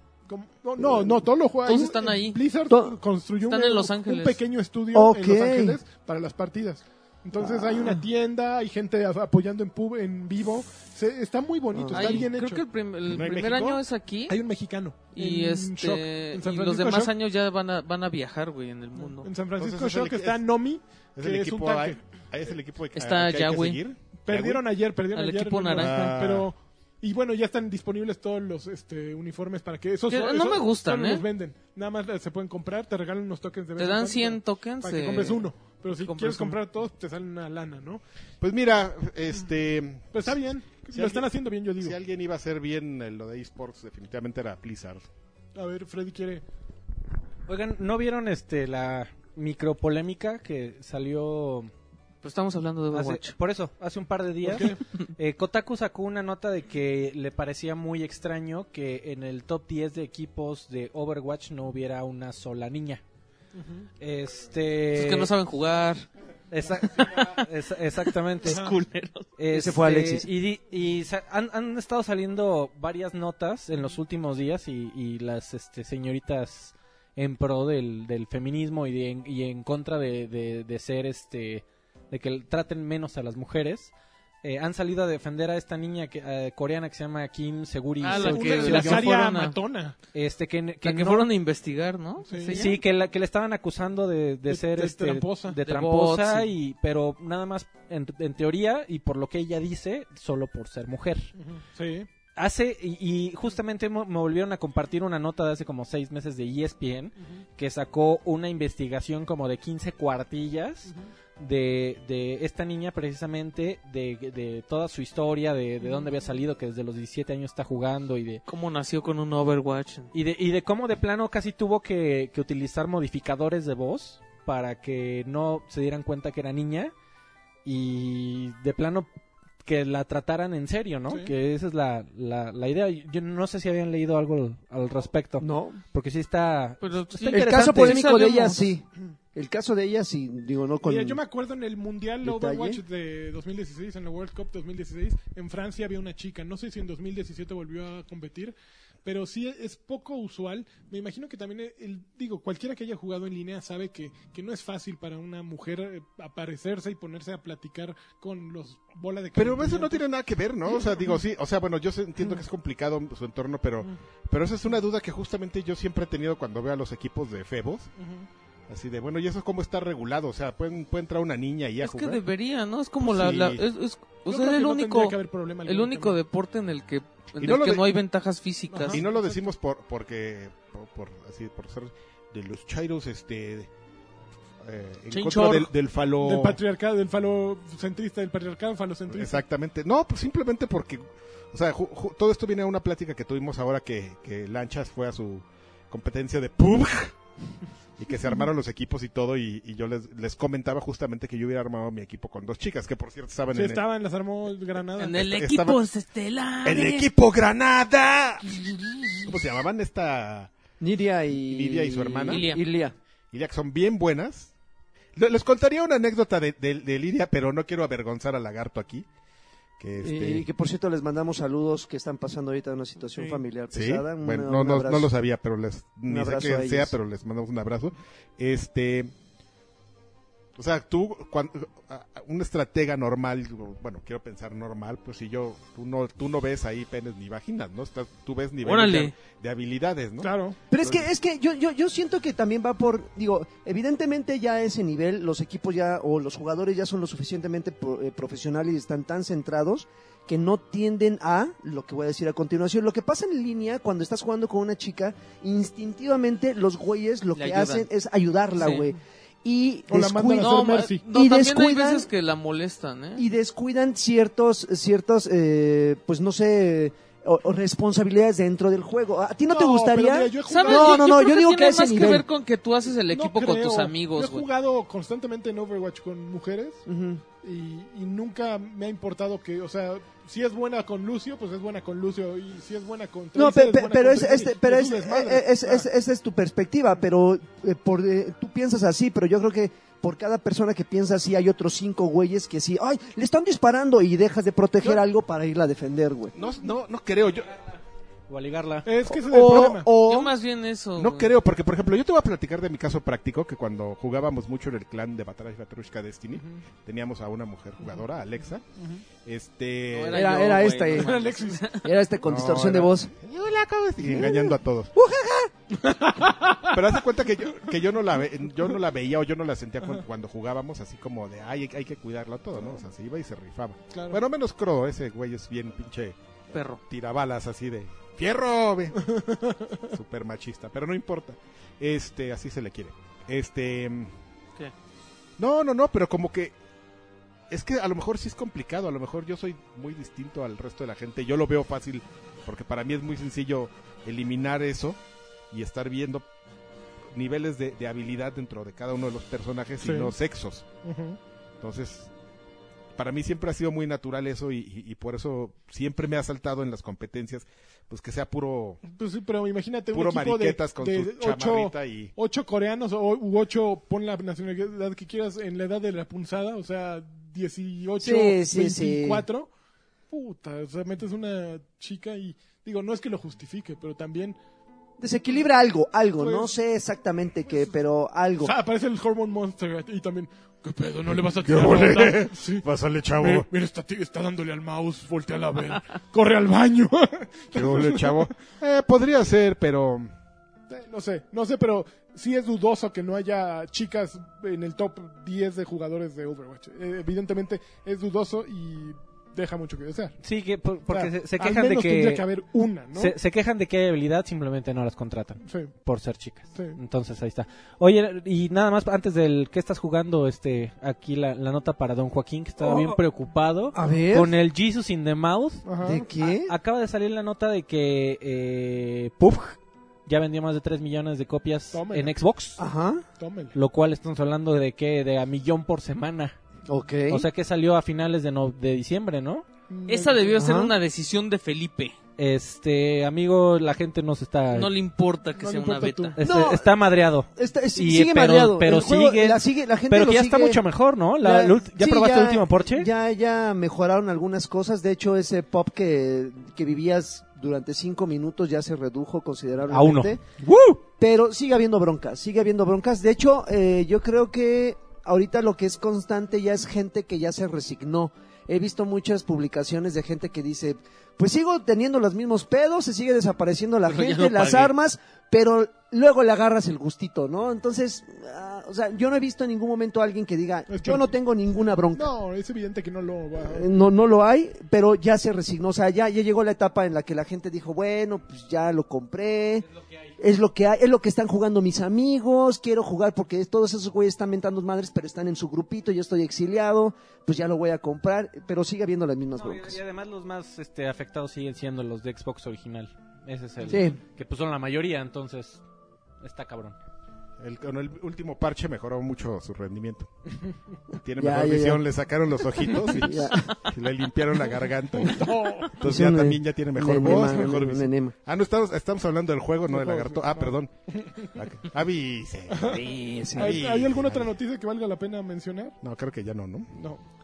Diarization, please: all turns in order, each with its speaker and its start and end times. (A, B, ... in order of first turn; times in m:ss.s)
0:00.3-0:12.6 A
0:00.8-0:01.2 B
0:01.6-0:02.4 C
0:02.7-0:03.0 B
0:03.5-0:04.4 C
0:04.9-0:05.8 B
0:07.4-0:07.9 B
0:11.7-0:12.2 B
0:11.9-0:14.4 C
0:13.1-0:13.8 D
0:14.3-0:17.1 A
0:15.1-0:19.3 C
0:19.0-0:22.0 A
0:19.6-0:20.4 D
0:21.2-0:24.6 D
0:22.9-0:23.8 C
0:24.2-0:38.0 A
0:25.1-0:26.2 C
0:25.8-0:26.5 D
0:30.1-0:31.2 C
0:33.8-0:35.4 C
0:36.0-0:36.6 C
0:38.4-0:40.3 D
0:40.1-0:42.0 A
0:40.9-0:45.0 D
0:45.6-0:46.4 A
0:47.5-0:51.7 E
0:52.2-0:53.3 C
0:52.9-1:03.0 E
0:54.4-0:54.8 A
1:03.5-1:03.9 A
1:04.0-1:05.3 E
1:04.9-1:06.1 C
1:06.5-1:08.6 E
1:06.9-1:07.3 C
1:08.4-1:09.3 C
1:08.4-1:08.7 A
1:09.4-1:29.1 E
1:09.5-1:10.3 B
1:28.0-1:29.6 C
1:28.1-1:30.0 A
1:30.1-1:31.3 E
1:30.8-1:32.8 C
1:32.3-1:32.7 A
1:32.5-1:41.3 E
1:34.5-1:35.6 A
1:35.6-1:36.5 C
1:41.4-1:42.1 A
1:42.3-1:58.4 E
1:55.8-1:56.1 A
1:58.5-2:00.1 C
2:00.1-2:06.9 E
2:07.6-2:09.1 E
2:09.6-2:18.3 E
2:11.1-2:11.3 A
2:15.4-2:15.8 B
2:16.8-2:18.6 C
2:17.3-2:21.2 B
2:20.8-2:40.0 A
2:22.2-2:22.8 B
2:39.4-2:47.9 D
2:40.7-2:41.1 A
2:48.0-2:48.3 A
2:48.7-2:52.2 D
2:51.8-2:59.0 C
2:53.0-2:53.6 D
2:54.3-2:56.2 A
2:57.4-2:58.0 D
2:58.7-2:59.5 A
2:58.9-3:03.7 D
3:04.6-3:06.6 D
3:05.1-3:05.7 C
3:06.2-3:09.4 A
3:09.1-3:17.2 D
3:18.0-3:23.8 D
3:23.5-3:25.2 A
3:25.0-3:27.1 C
3:25.1-3:25.8 D
3:26.6-3:30.5 D
3:30.8-3:32.9 B
3:31.3-3:32.4 D
3:32.3-3:32.6 C
3:33.3-3:34.5 D
3:35.2-3:39.0 D
3:39.8-3:40.5 D
3:40.0-3:45.1 B
3:43.7-3:49.1 D
3:46.1-3:46.9 B
3:50.6-4:01.1 D
3:58.6-3:59.1 C
4:00.2-4:00.6 A
4:00.7-4:22.1 B
4:17.3-4:17.9 C
4:18.6-4:18.9 C
4:19.9-4:21.0 A
4:20.4-4:23.2 C
4:23.2-4:32.2 B
4:29.5-4:31.1 A
4:30.5-4:34.5 C
4:33.1-4:36.8 A
4:36.9-4:37.2 B
4:37.4-4:45.9 A
4:43.4-4:56.3 B
4:56.3-4:57.5 D
4:58.3-4:58.9 E
4:58.8-4:59.9 A
4:59.1-5:00.3 B
5:00.0-5:01.3 C
5:01.0-5:08.6 D
5:06.3-5:06.6 A
5:08.8-5:09.0 A
5:09.2-5:10.6 D
5:09.9-5:11.9 C
5:10.1-5:11.2 B
5:10.9-5:11.7 A
5:11.8-5:13.1 B
5:12.2-5:14.9 D
5:14.0-5:15.5 B
5:15.8-5:16.8 A
5:16.6-5:26.2 D
5:23.9-5:24.2 A
5:26.5-5:26.8 C
5:26.8-5:29.0 D
5:29.0-5:29.8 A
5:29.9-5:34.1 D
5:35.4-5:36.5 D
5:37.5-5:45.0 D
5:45.5-5:46.3 D
5:47.1-5:50.6 D
5:49.8-5:50.1 A
5:50.8-5:51.2 A
5:51.6-5:52.1 D
5:53.0-5:58.8 D
5:58.8-6:09.5 A
5:59.9-6:02.1 D
6:08.0-6:09.2 B
6:10.1-6:14.4 A
6:15.0-6:18.5 B
6:16.2-6:16.5 A
6:18.4-6:22.6 A
6:21.1-6:23.5 D
6:23.2-6:28.3 A
6:27.5-6:30.1 D
6:30.7-6:40.2 A
6:40.2-6:42.2 E
6:40.9-6:43.2 A
6:42.9-7:02.6 E
6:45.4-6:45.7 A
6:52.6-6:52.9 B
6:53.7-6:54.4 B
6:55.6-6:56.0 A
6:55.8-6:56.5 B
7:01.7-7:02.1 A
7:02.6-7:03.0 B
7:03.2-7:03.5 A
7:03.5-7:06.3 E
7:06.7-7:07.3 B
7:07.1-7:09.4 E
7:09.7-7:10.4 A
7:09.9-7:12.0 C
7:10.4-7:10.7 B
7:12.2-7:14.7 E
7:14.5-7:16.2 C
7:15.4-7:16.2 A
7:16.2-7:22.9 E
7:16.2-7:16.7 B
7:17.3-7:20.6 B
7:21.2-7:30.2 B
7:29.7-7:30.8 E
7:31.0-7:52.1 B
7:43.8-7:44.7 C
7:50.7-7:51.1 A
7:51.9-7:53.7 A
7:53.4-7:59.6 B
7:59.8-8:00.1 E
8:00.2-8:09.8 B
8:09.3-8:15.6 E
8:13.7-8:14.0 B
8:16.2-8:16.7 E
8:17.4-8:20.1 D
8:21.0-8:30.7 D
8:21.2-8:21.8 B
8:22.7-8:23.6 B
8:25.0-8:25.8 A
8:25.8-8:28.1 B
8:29.7-8:31.3 A
8:31.3-8:34.3 D
8:32.5-8:35.8 A
8:32.8-8:33.6 B
8:35.8-8:36.7 D
8:36.8-8:37.0 A